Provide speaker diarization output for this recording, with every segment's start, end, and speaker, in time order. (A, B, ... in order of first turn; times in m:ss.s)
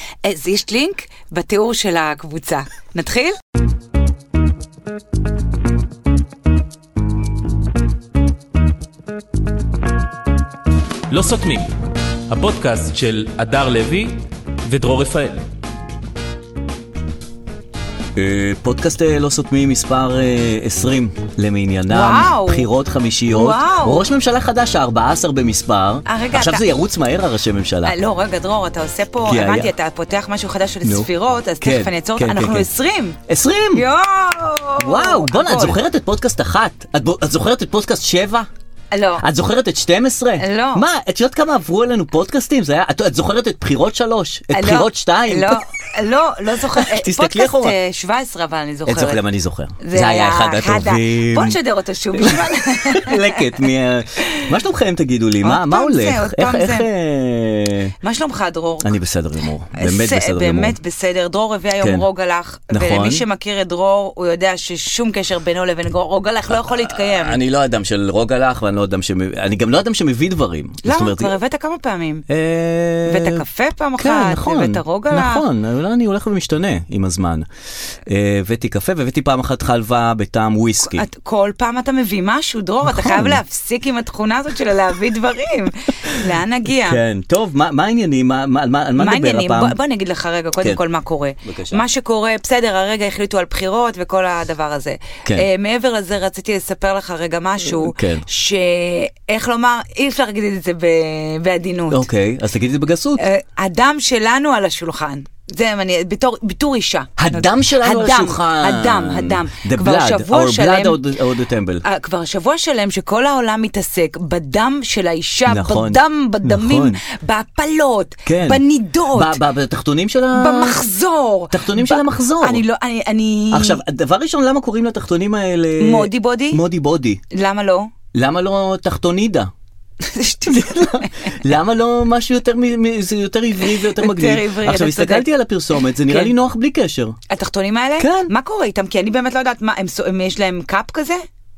0:00.2-0:03.4 A
0:11.1-0:11.7 B
0:12.3-0:15.4 B
0:18.2-0:28.0 C
0:21.9-0:22.7 A
0:23.3-0:24.0 A
0:26.0-0:26.7 A
0:27.8-0:33.2 A
0:29.2-0:29.7 C
0:30.8-0:32.7 C
0:33.3-0:33.9 C
0:33.7-0:35.8 A
0:34.8-0:38.5 C
0:38.9-0:39.2 A
0:39.2-0:45.6 C
0:40.4-0:40.8 A
0:44.5-0:49.2 A
0:46.8-0:47.8 C
0:48.9-0:51.6 C
0:49.8-0:53.6 A
0:52.1-0:57.9 C
0:55.4-0:56.9 A
0:58.0-0:58.9 A
0:58.8-1:00.8 C
0:59.8-1:07.4 A
1:02.7-1:03.2 C
1:06.6-1:11.3 C
1:10.8-1:12.2 A
1:12.3-1:13.4 C
1:13.0-1:15.4 A
1:14.0-1:17.5 C
1:18.0-1:21.0 C
1:20.8-1:27.0 A
1:22.9-1:23.4 C
1:26.8-1:29.7 C
1:29.0-1:42.1 A
1:31.4-1:31.8 C
1:37.7-1:38.2 C
1:41.9-1:43.2 C
1:43.2-1:51.0 A
1:47.2-1:51.8 C
1:51.8-1:59.4 A
1:55.5-1:57.0 C
1:58.2-2:00.8 C
2:00.3-2:03.8 A
2:01.5-2:02.6 C
2:03.5-2:07.2 C
2:05.8-2:06.6 A
2:07.3-2:07.9 A
2:08.1-2:09.5 C
2:10.0-2:11.1 A
2:10.5-2:17.2 C
2:13.6-2:16.3 A
2:17.3-2:21.2 A
2:18.0-2:18.3 C